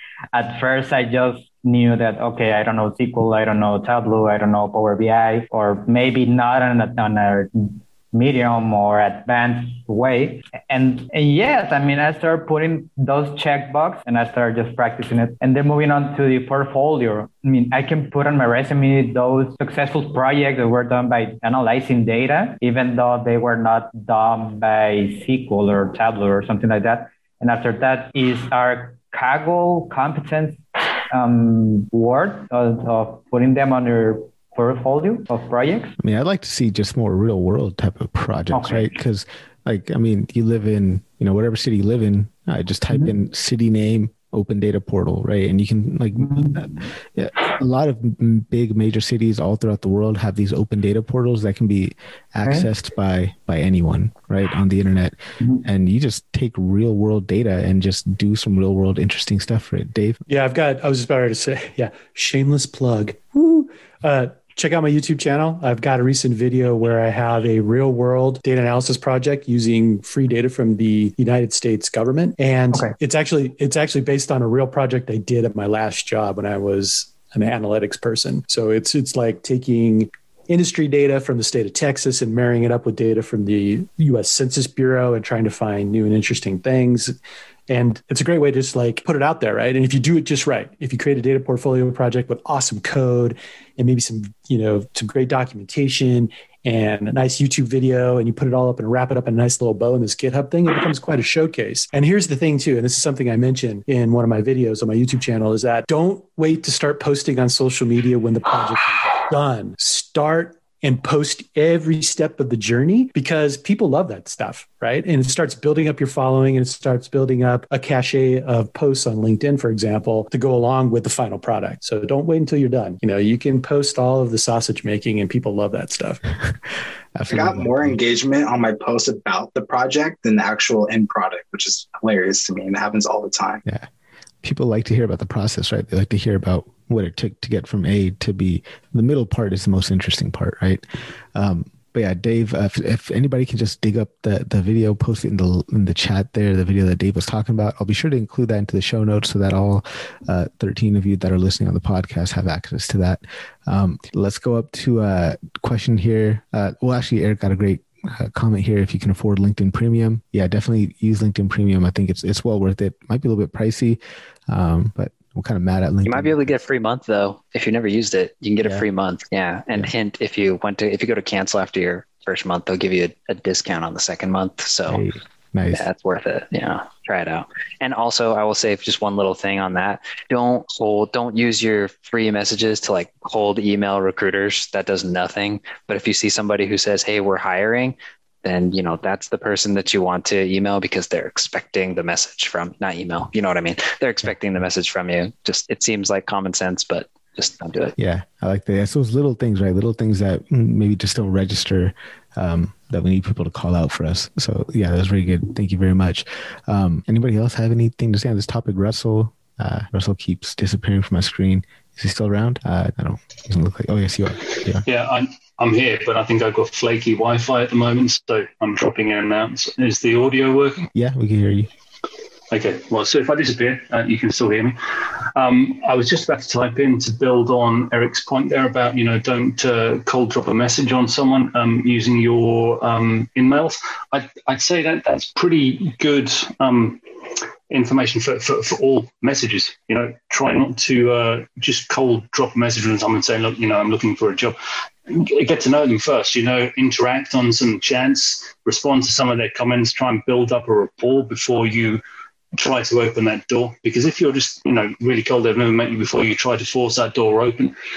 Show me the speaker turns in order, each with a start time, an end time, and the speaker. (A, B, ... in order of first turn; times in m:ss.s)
0:00.3-0:35.9 A
0:36.0-1:00.2 B
0:38.5-0:38.9 A
0:46.2-0:46.7 A
1:00.3-1:27.1 C
1:27.7-2:06.2 C
2:07.2-2:08.0 B
2:07.3-2:13.6 D
2:14.4-2:20.8 B
2:21.4-2:46.6 B
2:46.1-2:55.0 E
2:54.9-2:55.9 B
2:55.7-3:18.0 E
3:18.0-3:34.8 B
3:34.8-3:40.8 F
3:40.9-3:41.7 B
3:42.5-3:44.8 F
3:45.4-3:57.0 F
3:57.7-4:04.6 F
4:05.1-4:12.0 F
4:12.6-4:17.7 F